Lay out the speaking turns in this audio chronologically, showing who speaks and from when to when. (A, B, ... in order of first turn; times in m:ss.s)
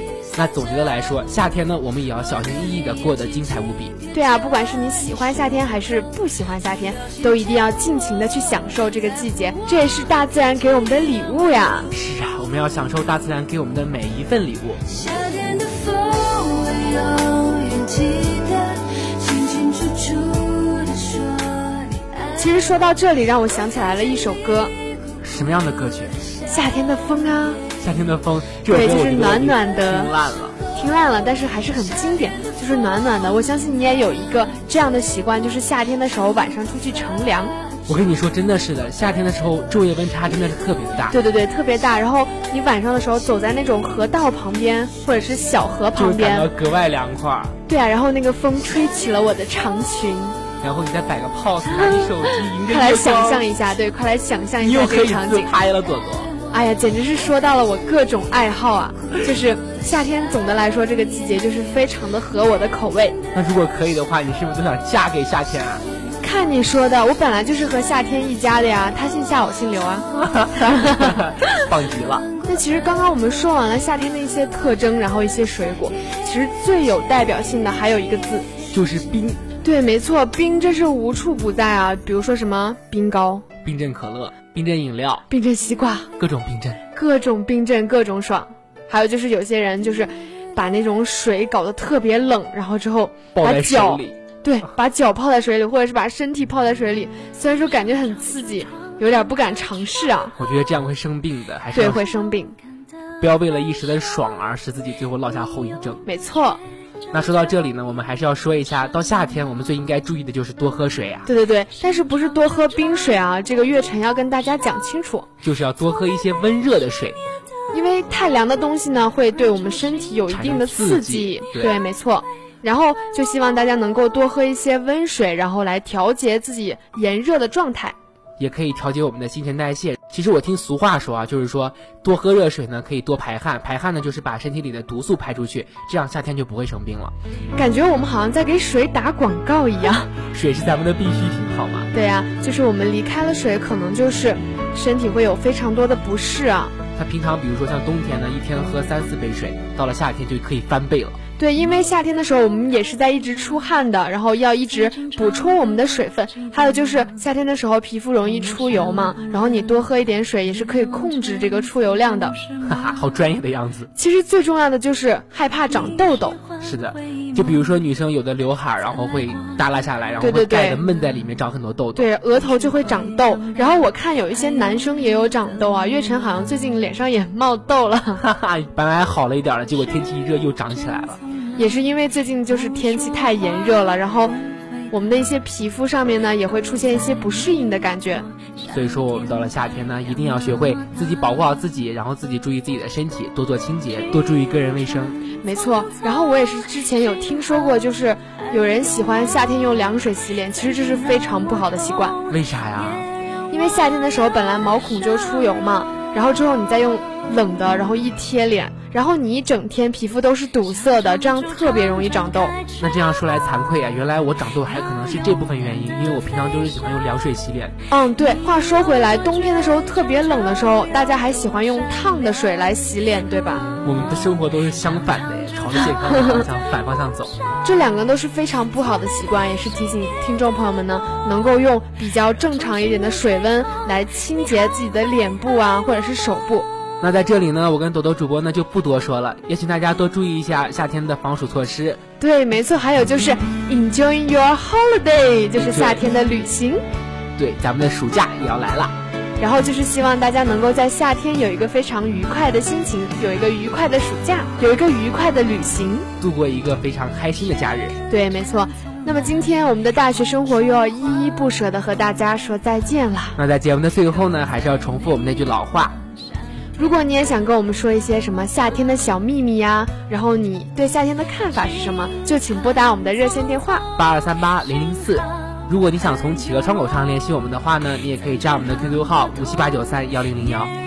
0:00.3-0:04.0 A
0:04.1-0:11.9 B
0:11.9-0:14.8 A
0:15.4-0:22.0 C
0:22.3-0:24.7 B
0:25.2-0:26.2 A
0:26.4-0:27.6 B
0:27.8-0:30.6 A
0:28.6-0:30.1 B
0:30.7-0:37.6 B
0:37.9-0:41.2 A
0:41.1-0:46.5 B
0:45.9-0:47.6 A
0:47.7-0:50.4 B
0:50.6-0:53.4 A
0:51.8-0:55.5 B
0:54.6-0:56.3 A
0:56.5-1:03.2 B
1:03.3-1:05.8 A
1:06.2-1:11.3 B
1:10.2-1:12.3 A
1:12.4-1:18.5 B
1:18.7-1:19.4 A
1:19.6-1:23.4 B
1:23.6-1:25.2 A
1:25.3-1:26.1 B
1:26.2-1:26.8 A
1:26.9-1:40.3 B
1:33.3-1:34.2 A
1:40.4-1:42.0 A
1:41.7-1:42.6 B
1:43.2-1:46.0 A
1:46.0-1:46.6 B
1:47.1-1:51.3 A
1:51.2-1:55.3 B
1:55.4-1:57.2 A
1:57.7-2:08.0 B
2:00.3-2:01.8 A
2:08.4-2:17.1 A
2:17.5-2:20.1 B
2:20.3-2:21.9 A
2:21.9-2:26.7 B
2:26.9-2:31.2 A
2:31.4-2:42.4 B
2:42.6-2:43.9 A
2:43.9-2:46.4 B
2:46.6-2:52.1 A
2:50.2-2:50.8 B
2:51.9-2:58.2 B
2:58.2-3:01.2 A
3:01.6-3:04.4 B
3:04.9-3:08.3 B
3:08.6-3:15.2 A
3:15.4-3:22.2 B
3:22.3-3:23.1 A
3:23.5-3:32.6 B
3:32.8-3:37.8 A
3:37.9-3:43.7 B
3:43.8-3:47.4 A
3:45.9-3:46.4 B
3:47.6-3:56.7 B
3:57.0-4:02.0 A
4:02.2-4:06.8 B
4:05.5-4:06.0 A
4:07.4-4:08.9 A
4:09.4-4:16.1 B
4:16.2-4:18.0 A
4:18.1-4:23.4 B
4:23.4-4:26.0 A
4:26.8-4:33.8 B
4:34.0-4:40.7 A